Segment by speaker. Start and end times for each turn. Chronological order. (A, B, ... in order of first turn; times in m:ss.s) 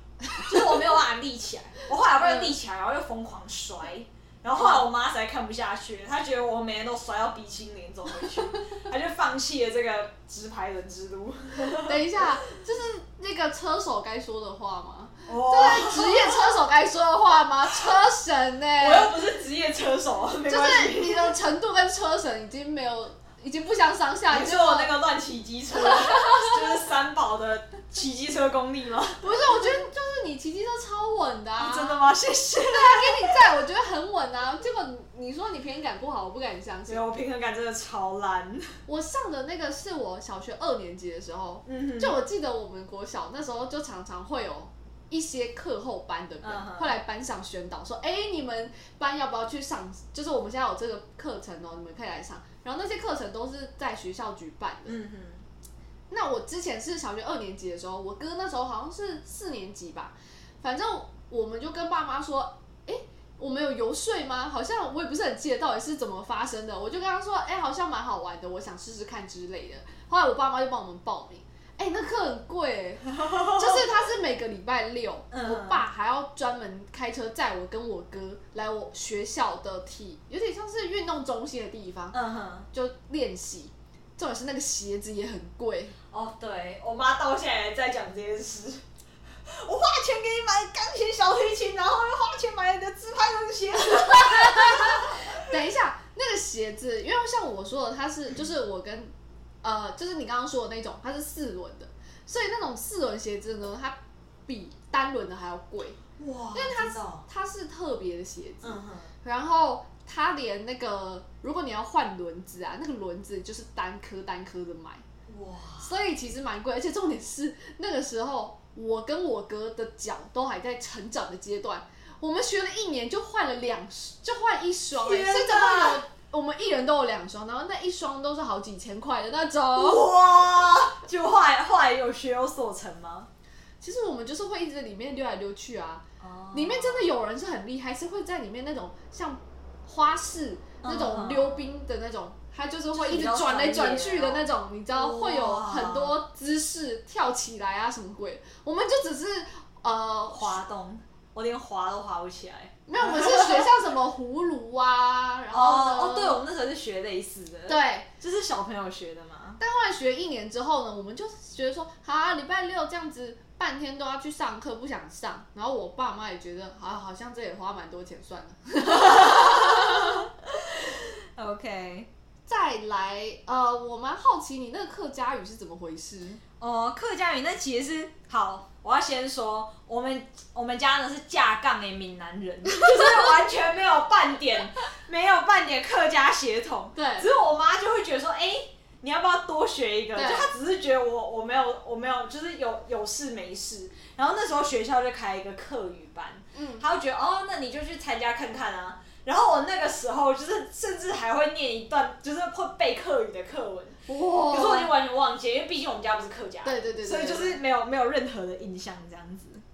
0:00.3-0:12.0 A
0:02.2-0:02.5 B
0:11.7-0:19.1 B
0:15.3-0:16.5 A
0:18.8-0:21.4 A
0:20.4-0:24.9 B
0:24.3-0:29.5 A
0:26.0-0:26.6 B
0:29.2-0:32.0 B
0:31.6-0:33.4 A
0:32.6-0:37.0 B
0:36.9-0:38.7 A
0:38.8-0:55.0 B
0:41.6-0:42.1 A
0:46.4-0:47.0 A
0:54.8-0:55.4 A
0:56.1-1:22.2 B
1:15.3-1:15.8 A
1:22.1-1:22.7 A
1:22.7-1:26.0 B
1:26.1-1:28.8 A
1:29.4-1:35.4 A
1:34.0-1:39.1 B
1:39.6-1:46.0 B
1:46.2-1:47.2 A
1:46.5-1:55.0 B
1:48.6-1:49.1 A
1:55.3-1:55.9 A
1:55.8-2:10.0 B
2:04.9-2:06.0 A
2:09.7-2:13.3 A
2:13.8-2:30.6 B
2:16.2-2:17.1 A
2:20.8-2:21.7 A
2:22.9-2:26.1 A
2:30.3-2:33.7 A
2:32.9-2:36.4 B
2:35.5-2:39.6 A
2:37.7-2:38.1 B
2:39.6-2:50.3 B
2:48.9-2:52.1 A
2:52.5-2:56.4 B
2:56.6-3:29.6 A
3:02.9-3:03.2 B
3:07.0-3:07.3 B
3:10.1-3:10.5 B
3:16.5-3:16.8 B
3:24.1-3:24.9 B
3:26.6-3:27.6 B